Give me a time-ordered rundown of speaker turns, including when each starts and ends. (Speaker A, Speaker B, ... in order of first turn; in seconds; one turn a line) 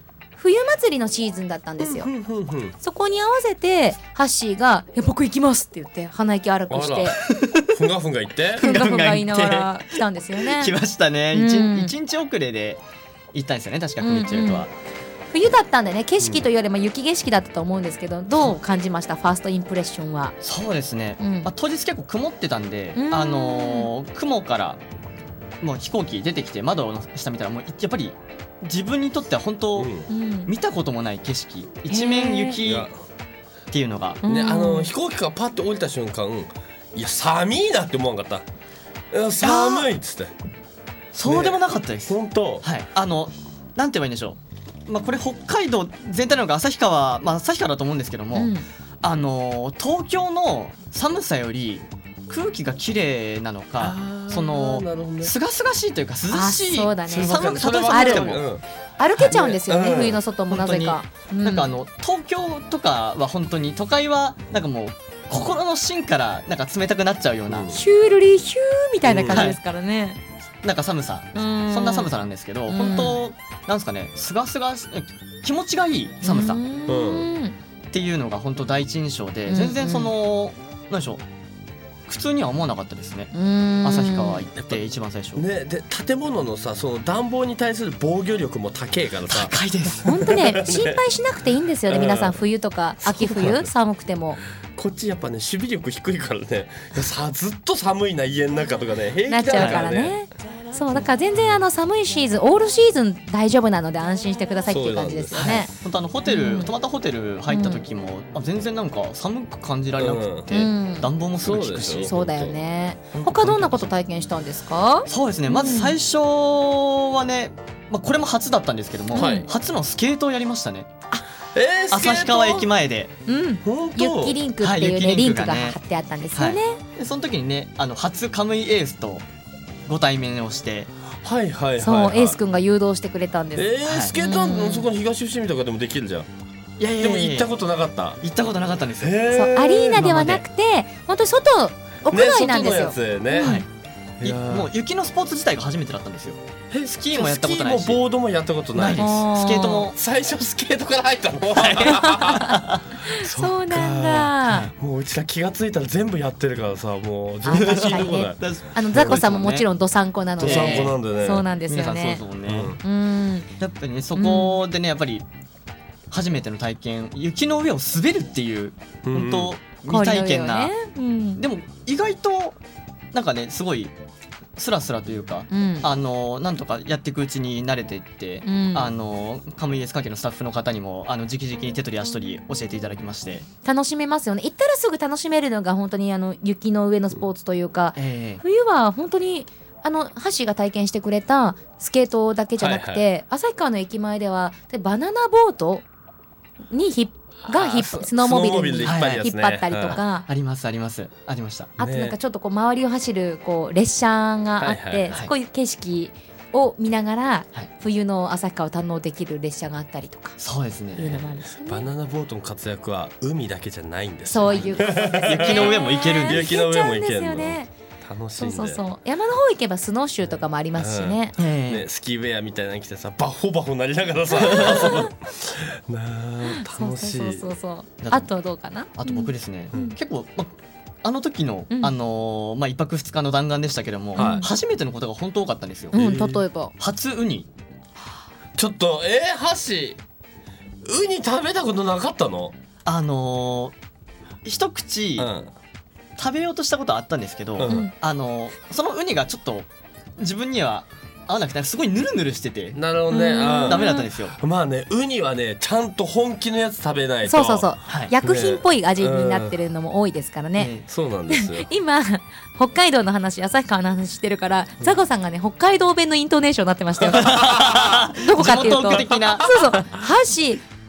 Speaker A: 0.3-2.1
Speaker B: 1.8-2.7
Speaker A: 2.8-7.2
Speaker B: 6.7-8.7
Speaker C: 7.2-7.9
Speaker C: 8.6-12.8
Speaker A: 8.6-10.7
Speaker A: 11.3-11.9
Speaker C: 13.3-14.7
Speaker A: 14.0-14.7
Speaker A: 15.3-20.3
Speaker C: 20.4-24.8
Speaker A: 21.2-21.5
Speaker A: 22.9-23.9
Speaker C: 25.6-32.9
Speaker B: 29.7-30.1
Speaker A: 30.1-30.5
Speaker A: 31.9-32.6
Speaker B: 32.6-32.9
Speaker C: 33.7-34.2
Speaker A: 34.2-34.9
Speaker B: 34.2-38.4
Speaker B: 39.1-40.3
Speaker C: 39.4-39.9
Speaker C: 41.1-58.4
Speaker B: 41.2-42.6
Speaker A: 48.3-48.6
Speaker B: 53.8-55.3
Speaker A: 56.3-58.4
Speaker B: 57.1-58.6
Speaker A: 59.0-61.7
Speaker C: 59.1-59.6
Speaker B: 59.3-60.2
Speaker C: 60.5-67.7
Speaker B: 67.5-67.8
Speaker A: 67.7-70.2
Speaker B: 69.0-69.5
Speaker C: 69.3-69.6
Speaker C: 70.6-76.6
Speaker A: 71.3-72.1
Speaker A: 72.7-73.2
Speaker A: 76.2-77.5
Speaker B: 76.8-77.3
Speaker C: 77.9-81.2
Speaker A: 79.5-80.1
Speaker C: 82.1-83.3
Speaker A: 83.3-84.5
Speaker C: 83.8-85.4
Speaker B: 85.3-91.0
Speaker C: 89.3-90.0
Speaker A: 90.0-94.4
Speaker B: 91.9-92.4
Speaker B: 93.0-93.7
Speaker B: 94.7-100.2
Speaker A: 99.3-105.7
Speaker C: 99.5-99.8
Speaker B: 104.7-105.4
Speaker C: 105.3-112.2
Speaker A: 106.2-106.7
Speaker A: 107.5-107.8
Speaker B: 110.0-110.5
Speaker A: 110.5-111.1
Speaker B: 111.4-112.6
Speaker A: 112.0-115.9
Speaker B: 113.1-113.7
Speaker C: 113.2-113.9
Speaker C: 115.1-120.9
Speaker A: 119.1-119.5
Speaker B: 119.1-119.5
Speaker B: 121.5-122.7
Speaker C: 121.9-123.1
Speaker A: 123.3-126.8
Speaker B: 123.6-124.4
Speaker C: 124.6-125.8
Speaker C: 126.3-129.2
Speaker C: 129.9-130.9
Speaker B: 131.2-132.4
Speaker A: 131.8-134.9
Speaker B: 133.5-136.3
Speaker C: 133.8-134.1
Speaker C: 136.8-137.5
Speaker B: 137.0-138.2
Speaker C: 138.2-139.2
Speaker B: 139.0-140.0
Speaker A: 139.3-143.6
Speaker C: 139.9-140.4
Speaker B: 142.1-143.6
Speaker C: 143.4-143.7
Speaker B: 144.2-144.7
Speaker C: 144.2-148.0
Speaker B: 146.7-149.2
Speaker C: 148.7-150.0
Speaker A: 148.9-149.9
Speaker B: 149.9-158.4
Speaker C: 151.5-152.8
Speaker A: 151.9-154.7
Speaker C: 154.4-154.7
Speaker A: 157.4-162.2
Speaker C: 157.5-159.7
Speaker B: 158.9-159.2
Speaker C: 160.4-161.0
Speaker B: 160.4-161.4
Speaker C: 161.7-162.8
Speaker B: 162.5-162.8
Speaker A: 162.8-163.5
Speaker C: 163.6-165.2
Speaker A: 164.2-164.6
Speaker C: 166.1-170.8
Speaker B: 169.1-169.5
Speaker A: 169.9-171.4
Speaker C: 171.4-172.6
Speaker C: 173.1-173.9
Speaker C: 174.6-183.4
Speaker A: 175.5-175.9
Speaker A: 178.4-178.9
Speaker A: 183.6-195.8
Speaker C: 187.9-188.4
Speaker B: 192.6-193.0
Speaker A: 196.7-200.2
Speaker B: 197.5-200.0
Speaker C: 197.7-198.1
Speaker C: 198.8-199.3
Speaker C: 199.9-201.7
Speaker B: 201.8-202.2
Speaker A: 201.8-210.4
Speaker B: 204.6-205.2
Speaker C: 210.4-211.1
Speaker A: 210.9-211.9
Speaker B: 211.1-218.8
Speaker A: 214.3-217.7
Speaker C: 214.4-216.5
Speaker A: 218.4-221.3
Speaker B: 220.8-227.4
Speaker C: 221.4-221.8
Speaker A: 224.3-225.1
Speaker A: 226.5-229.9
Speaker C: 228.0-228.3
Speaker C: 229.0-236.0
Speaker A: 231.7-231.9
Speaker B: 234.2-234.5
Speaker A: 234.2-234.5
Speaker A: 235.9-236.7
Speaker B: 235.9-236.4
Speaker C: 236.8-237.5
Speaker B: 238.6-240.0
Speaker B: 240.8-242.5
Speaker C: 242.8-243.7
Speaker C: 244.4-245.3
Speaker B: 245.2-245.5
Speaker C: 246.2-252.8
Speaker B: 247.6-247.8
Speaker A: 247.7-247.9
Speaker B: 252.7-257.7
Speaker A: 253.1-254.1
Speaker C: 253.7-254.3
Speaker A: 257.2-260.7
Speaker C: 257.9-258.1
Speaker B: 258.2-259.5
Speaker C: 260.6-260.9
Speaker B: 260.9-261.7
Speaker A: 261.3-270.6
Speaker B: 267.0-269.6
Speaker C: 267.1-269.8